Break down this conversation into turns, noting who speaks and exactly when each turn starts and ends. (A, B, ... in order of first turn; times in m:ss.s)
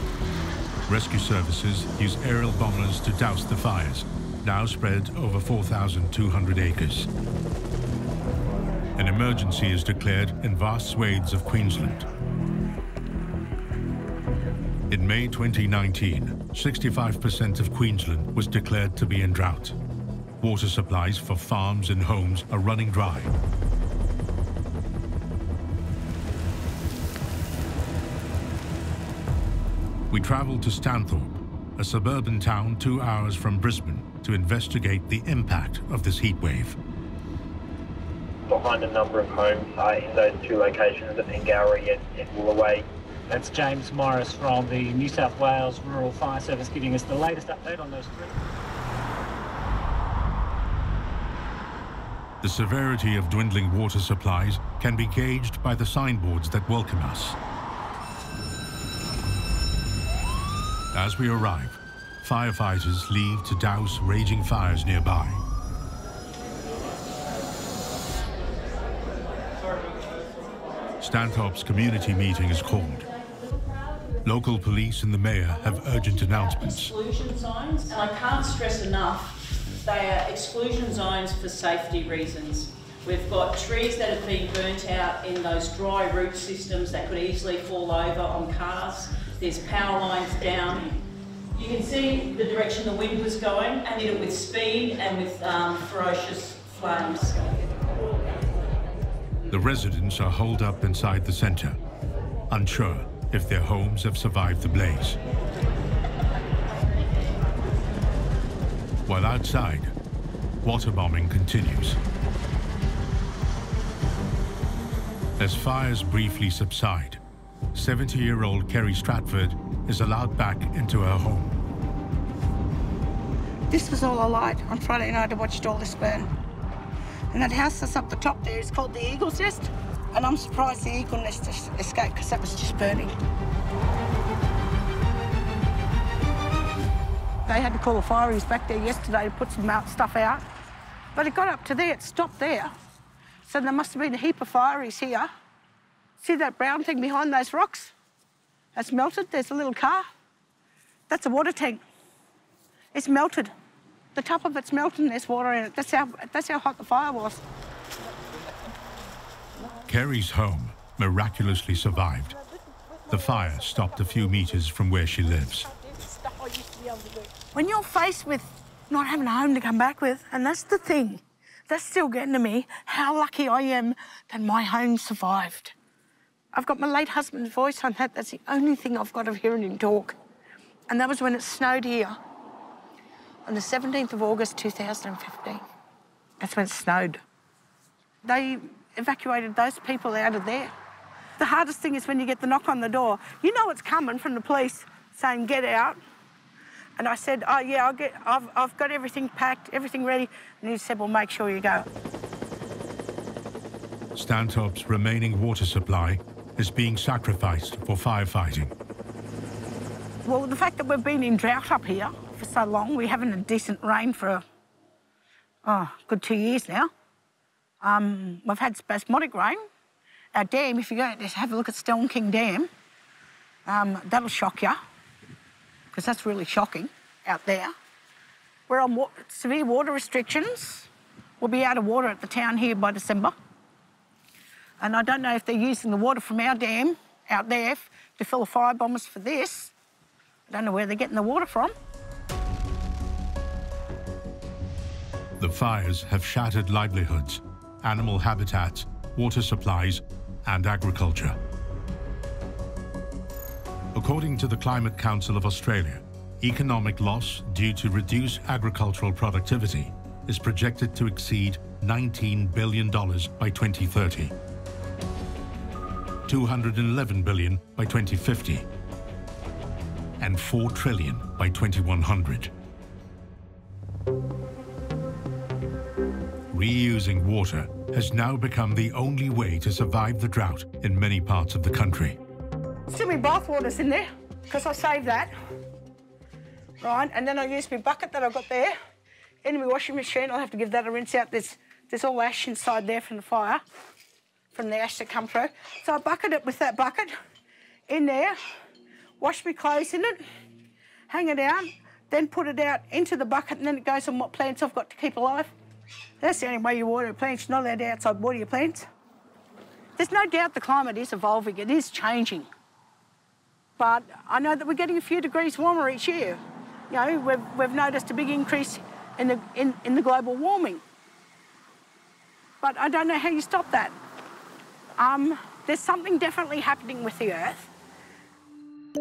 0:00.9-0:07.1 A
0:09.0-0:12.1 A
0:14.9-0:19.8 A
0:20.4-0:23.3 A
0:30.1-0:36.8 A
0:38.5-0:42.8 B
0:43.3-0:48.3 C
0:52.4-0:57.4 A
1:00.9-1:05.4 A
1:11.0-1:13.1 A
1:14.2-1:16.9 A
1:16.2-1:31.0 D
1:31.6-1:37.6 D
1:39.5-1:41.8 A
1:42.5-1:45.2 A
1:49.1-1:49.9 A
1:50.6-1:52.0 A
1:55.4-1:57.2 A
1:57.7-2:01.6 A
2:03.7-2:06.3 E
2:07.3-2:13.2 E
2:17.5-2:20.4 E
2:21.2-2:22.7 E
2:23.5-2:25.3 E
2:26.2-2:27.9 E
2:28.8-2:30.1 E
2:31.1-2:31.8 E
2:32.9-2:33.5 E
2:34.2-2:37.4 E
2:39.9-2:42.3 A
2:42.5-2:44.2 E
2:43.1-2:45.7 A
2:45.5-2:55.7 E
2:56.5-3:00.2 E
3:00.9-3:02.2 E
3:03.5-3:05.6 E
3:06.4-3:07.2 E
3:08.2-3:10.7 E
3:11.4-3:16.0 E
3:17.0-3:21.9 E
3:24.2-3:28.7 A
3:30.2-3:34.4 E
3:35.6-3:36.9 E
3:37.8-3:39.7 E
3:40.3-3:42.7 E
3:43.7-3:44.8 E
3:45.9-3:47.7 E
3:48.7-3:50.9 E
3:51.4-3:53.4 E
3:54.8-3:59.7 E
4:00.5-4:01.7 E
4:05.4-4:11.4 A
4:13.9-4:24.3 A
4:26.3-4:28.7 A
4:30.2-4:32.5 A
4:36.5-4:42.2 A
4:42.9-4:45.3 E
4:46.8-4:48.8 E
4:49.4-4:53.6 E
4:54.5-4:57.1 E
4:57.9-4:58.4 E
4:59.2-5:00.2 E
5:01.1-5:05.5 E
5:06.2-5:08.9 E
5:10.0-5:12.5 E
5:13.8-5:20.8 E
5:22.6-5:23.9 E
5:25.0-5:27.7 E